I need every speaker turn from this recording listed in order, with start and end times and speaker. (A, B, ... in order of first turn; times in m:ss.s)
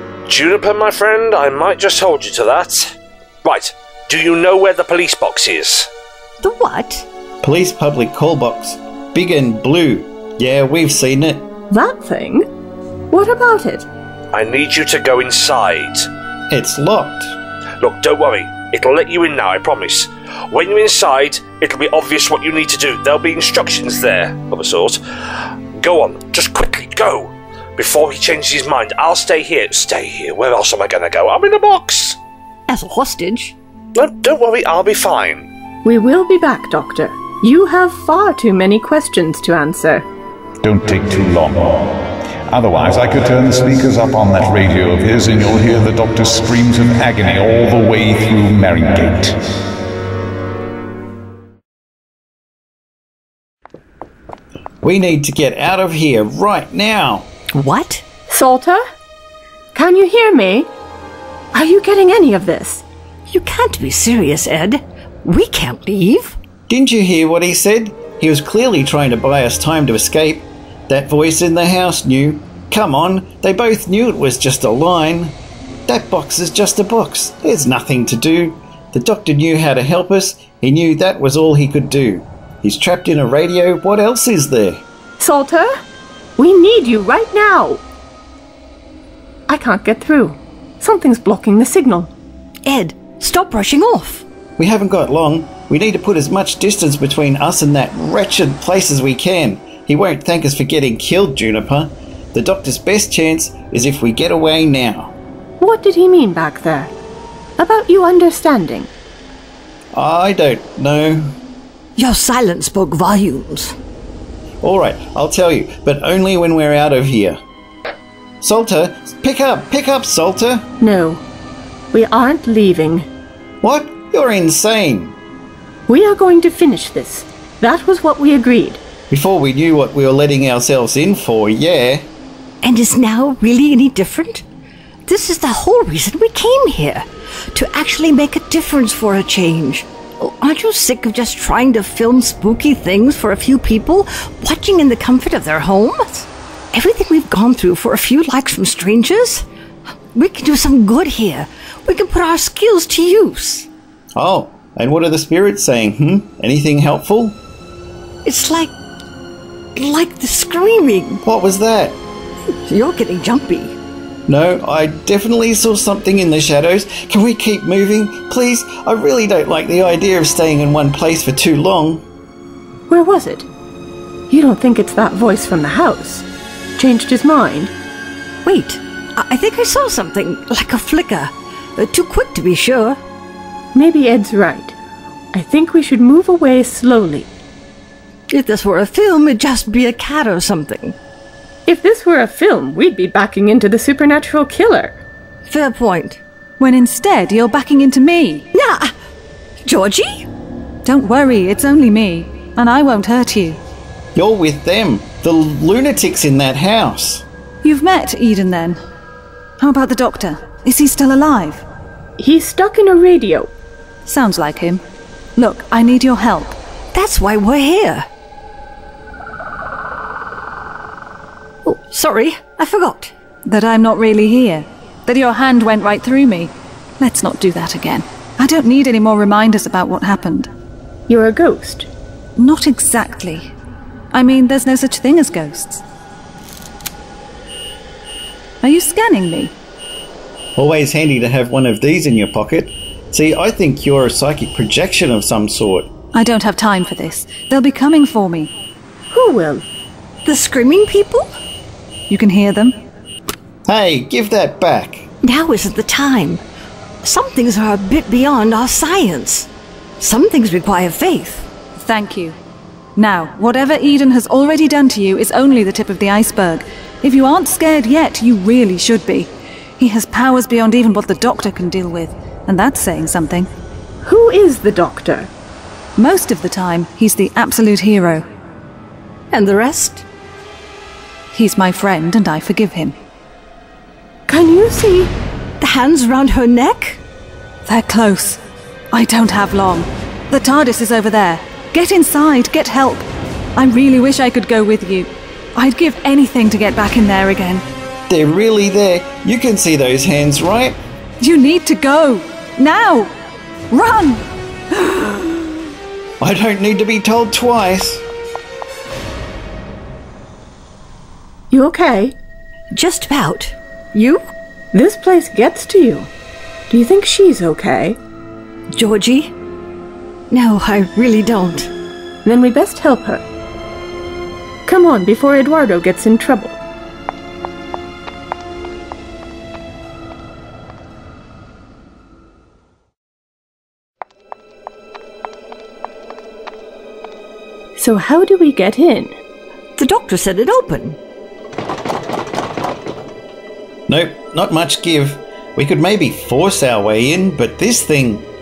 0:00.3-0:05.9 A
0:06.4-0:07.1 B
0:07.4-0:11.5 C
0:11.7-0:12.5 D
0:13.1-0:13.9 D
0:14.3-0:16.1 A
0:16.5-0:17.3 C
0:17.8-0:25.0 A
0:25.8-0:32.2 A
0:32.7-0:33.6 B
0:34.0-0:35.5 A
0:35.8-0:40.1 D
0:40.6-0:49.6 E
0:54.8-0:57.3 C
0:57.5-0:58.0 B
0:58.3-0:58.8 D
0:59.8-1:00.7 D
1:01.5-1:02.8 D
1:03.3-1:06.4 B
1:06.7-1:15.4 C
1:15.9-1:24.8 C
1:25.2-1:25.7 D
1:26.4-1:27.8 D
1:29.5-1:32.1 D
1:32.6-1:34.2 B
1:34.6-1:45.1 C
1:45.6-1:46.9 D
1:47.6-1:48.9 D
1:49.9-1:51.3 C
1:52.0-1:53.8 B
1:54.6-1:57.4 C
1:58.4-2:00.7 C
2:00.8-2:01.2 D
2:01.9-2:03.1 D
2:03.6-2:05.2 C
2:05.9-2:08.8 D
2:09.1-2:12.1 C
2:12.6-2:14.4 B
2:15.1-2:29.4 B
2:30.1-2:33.7 B
2:34.2-2:37.4 C
2:38.2-2:38.7 B
2:39.8-2:41.2 B
2:41.2-2:42.0 C
2:42.6-2:43.8 B
2:44.3-2:52.0 C
2:52.9-2:53.5 D
2:54.3-2:56.2 D
2:56.8-2:57.7 D
2:58.4-3:03.0 B
3:03.7-3:04.8 D
3:05.3-3:07.3 D
3:08.3-3:11.0 B
3:11.6-3:15.0 D
3:15.5-3:16.2 B
3:16.6-3:18.5 F
3:18.5-3:18.9 B
3:19.6-3:20.3 B
3:20.8-3:23.6 F
3:24.1-3:27.2 C
3:27.6-3:28.8 F
3:29.6-3:31.6 F
3:32.2-3:33.5 D
3:34.1-3:34.8 F
3:35.4-3:36.6 F
3:36.9-3:38.1 B
3:41.6-3:43.1 B
3:43.5-3:50.5 F
3:51.1-3:51.9 D
3:52.4-3:53.5 F
3:54.1-3:55.8 F
3:58.6-3:59.5 F
4:00.6-4:05.9 C
4:06.1-4:08.5 F
4:09.1-4:09.6 D
4:10.2-4:11.2 B
4:12.1-4:12.8 F
4:13.6-4:15.1 C
4:15.2-4:16.4 B
4:17.0-4:19.5 B
4:20.0-4:21.5 B
4:21.8-4:22.4 F
4:23.0-4:33.5 F
4:34.0-4:35.3 D
4:36.0-4:38.3 F
4:39.3-4:40.0 B
4:41.3-4:43.0 F
4:44.3-4:45.1 D
4:45.6-4:47.0 B
4:47.6-4:48.4 F
4:48.9-4:57.6 F
4:58.1-5:00.8 C
5:01.2-5:03.1 F
5:03.7-5:05.5 F
5:06.2-5:08.0 C
5:11.5-5:12.1 D
5:12.7-5:14.2 B
5:14.7-5:16.1 D
5:16.7-5:18.0 D
5:18.8-5:19.3 B
5:20.3-5:21.7 B
5:22.2-5:23.2 D
5:24.6-5:26.6 D
5:37.8-5:39.2 D
5:39.8-5:41.0 B
5:43.9-5:48.3 C